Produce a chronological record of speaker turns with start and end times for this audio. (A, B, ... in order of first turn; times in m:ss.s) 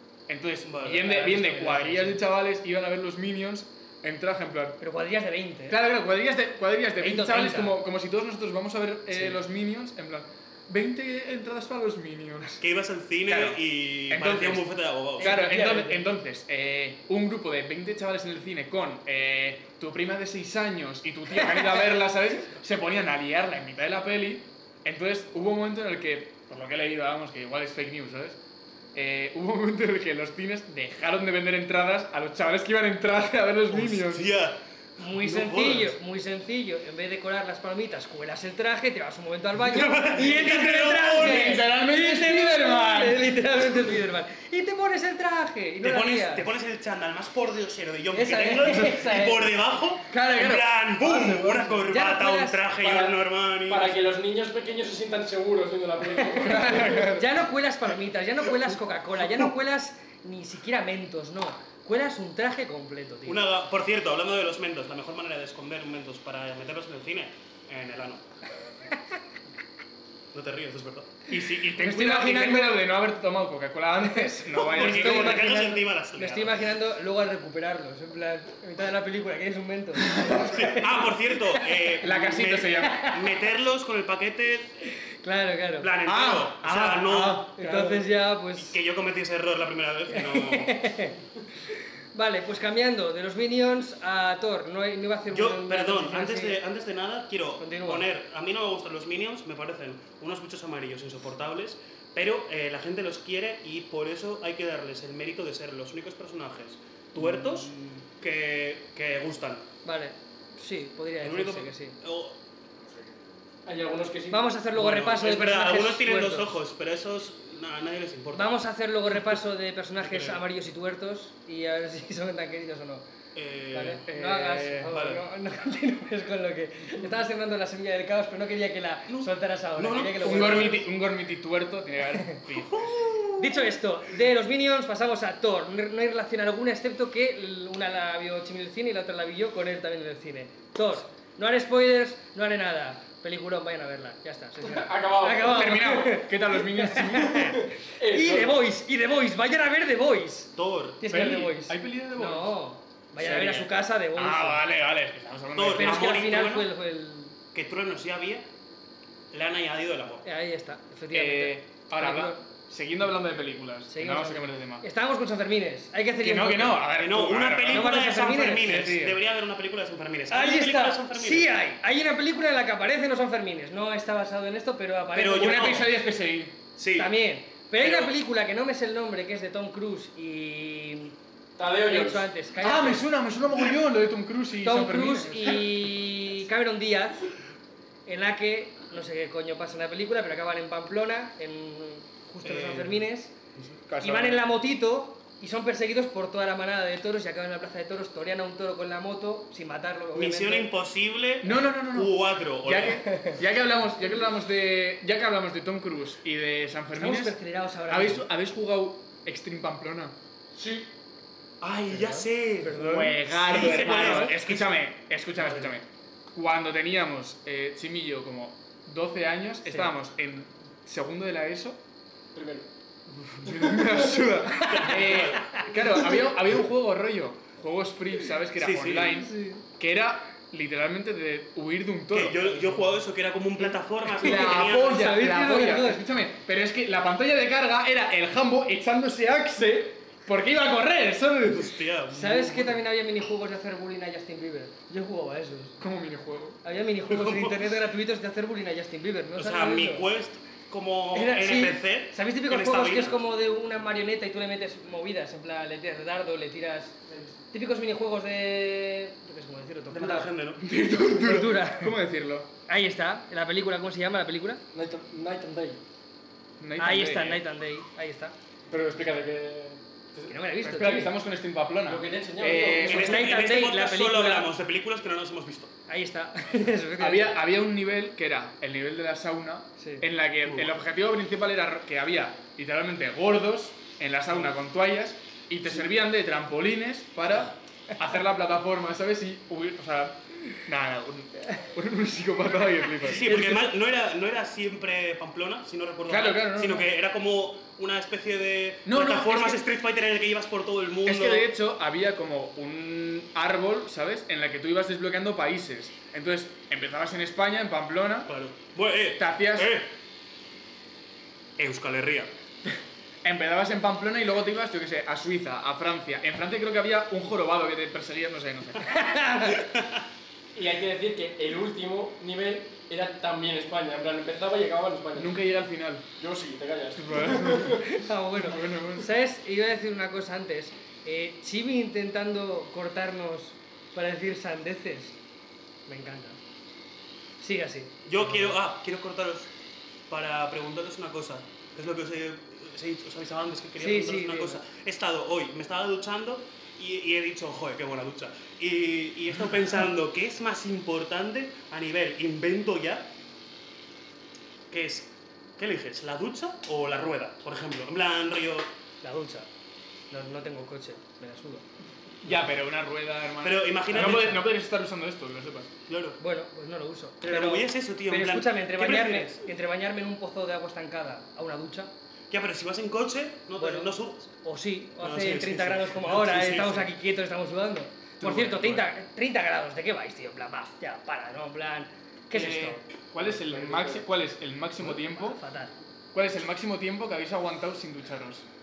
0:00.3-0:04.8 A
0:00.6-0:01.1 B
0:00.8-0:02.2 C
0:04.8-0:05.8 C
0:05.7-0:12.6 A
0:07.0-0:07.8 C
0:12.6-0:15.3 B
0:13.3-0:28.4 A
0:15.2-0:16.1 C
0:28.9-0:34.3 A
0:33.7-0:36.0 B
0:35.0-0:46.5 C
0:39.6-0:41.6 B
0:40.4-0:43.5 A
0:45.8-0:54.0 B
0:48.1-0:49.5 C
0:50.1-0:51.6 A
0:51.9-0:52.6 C
0:52.8-0:57.0 D
0:56.2-1:03.4 C
0:56.4-0:57.4 A
1:03.3-1:08.2 B
1:10.3-1:11.2 B
1:11.3-1:15.5 A
1:11.8-1:12.8 C
1:14.0-1:21.6 C
1:14.5-1:16.6 B
1:20.0-1:20.6 A
1:20.4-1:24.7 B
1:22.0-1:23.1 A
1:22.8-1:23.3 C
1:24.9-1:25.9 C
1:25.8-1:27.5 B
1:26.0-1:27.9 A
1:27.6-1:28.8 C
1:28.6-1:30.9 B
1:30.1-1:31.2 C
1:32.1-1:36.6 C
1:35.3-1:49.7 B
1:37.6-1:38.1 C
1:49.8-1:52.0 C
1:51.2-1:52.4 B
1:53.6-1:54.5 D
1:54.3-1:56.6 C
1:54.7-1:58.6 B
1:58.3-2:03.0 C
2:00.0-2:00.4 B
2:03.4-2:04.0 B
2:03.7-2:10.9 C
2:04.1-2:04.9 A
2:04.9-2:05.2 B
2:09.1-2:10.8 B
2:10.2-2:13.1 A
2:12.6-2:13.7 B
2:13.4-2:34.6 C
2:24.6-2:25.7 D
2:25.4-2:27.6 A
2:27.4-2:28.6 D
2:30.6-2:31.0 B
2:31.1-2:32.6 A
2:33.2-2:36.3 A
2:35.5-2:36.7 B
2:35.8-2:37.4 C
2:37.5-2:38.5 B
2:39.3-2:40.2 B
2:40.2-2:42.4 C
2:41.1-2:44.8 A
2:43.9-2:46.9 C
2:46.2-2:47.9 A
2:46.9-2:51.5 B
2:47.7-2:48.7 C
2:48.6-2:49.2 A
2:50.3-2:55.9 C
2:55.1-2:55.9 B
2:55.4-2:56.6 A
2:56.8-2:57.1 B
2:57.0-3:01.2 C
2:57.8-2:58.1 B
3:01.6-3:02.3 D
3:01.8-3:03.1 C
3:02.6-3:05.9 A
3:04.6-3:07.3 C
3:08.1-3:13.3 C
3:12.4-3:13.0 B
3:13.9-3:14.4 A
3:14.0-3:20.7 C
3:20.2-3:23.0 B
3:21.4-3:30.2 A
3:26.9-3:28.2 C
3:30.6-3:30.9 D
3:31.6-3:34.7 B
3:31.9-3:34.4 C
3:32.7-3:41.8 A
3:35.4-3:35.7 C
3:39.6-3:39.9 C
3:42.4-3:42.7 D
3:43.4-3:52.7 A
3:43.5-3:44.1 D
3:44.6-3:45.7 B
3:44.6-3:44.9 C
3:48.6-3:49.2 B
3:49.2-3:49.6 C
3:52.1-3:55.2 B
3:53.6-3:56.0 C
3:54.2-4:01.7 A
4:01.4-4:02.8 B
4:02.1-4:05.8 C
4:05.8-4:06.6 A
4:06.6-4:10.1 C
4:07.1-4:07.7 B
4:09.4-4:13.3 B
4:11.1-4:17.0 C
4:17.5-4:20.3 C
4:19.9-4:20.6 B
4:20.6-4:22.5 A
4:21.1-4:22.0 C
4:22.7-4:24.6 C
4:24.7-4:25.8 D
4:26.6-4:27.4 A
4:26.8-4:28.3 C
4:28.7-4:30.4 D
4:30.3-4:31.2 C
4:30.6-4:33.3 A
4:31.8-4:33.0 D
4:32.8-4:35.7 B
4:32.8-4:34.5 C
4:35.9-4:37.4 C
4:37.0-4:53.3 A
4:39.8-4:40.1 C
4:40.5-4:40.8 B
4:53.0-5:01.5 B
4:53.2-4:53.7 C
4:56.1-4:56.9 A
4:58.9-4:59.6 A
5:01.0-5:08.3 A
5:08.3-5:09.9 B
5:09.2-5:09.8 A
5:11.6-5:12.3 B
5:13.2-5:19.1 A
5:18.8-5:19.7 C
5:19.6-5:20.0 B
5:20.6-5:25.4 D
5:25.2-5:26.1 A
5:26.2-5:27.8 D
5:27.0-5:29.1 A
5:27.8-5:35.2 C
5:35.9-5:36.4 C
5:37.4-5:38.0 C
5:38.1-5:39.5 B
5:40.1-5:53.1 B
5:43.8-5:44.6 C
5:54.7-5:58.7 B
5:59.0-5:59.5 C
6:00.1-6:01.6 C
6:02.2-6:05.7 A
6:03.4-6:04.5 B
6:05.9-6:06.2 B
6:06.2-6:11.9 C
6:07.2-6:09.5 B
6:12.3-6:14.3 B
6:13.6-6:22.8 C
6:15.0-6:16.9 B
6:18.2-6:18.8 B
6:22.3-6:25.4 A
6:23.5-6:24.0 D
6:25.0-6:25.7 C
6:26.1-6:28.5 A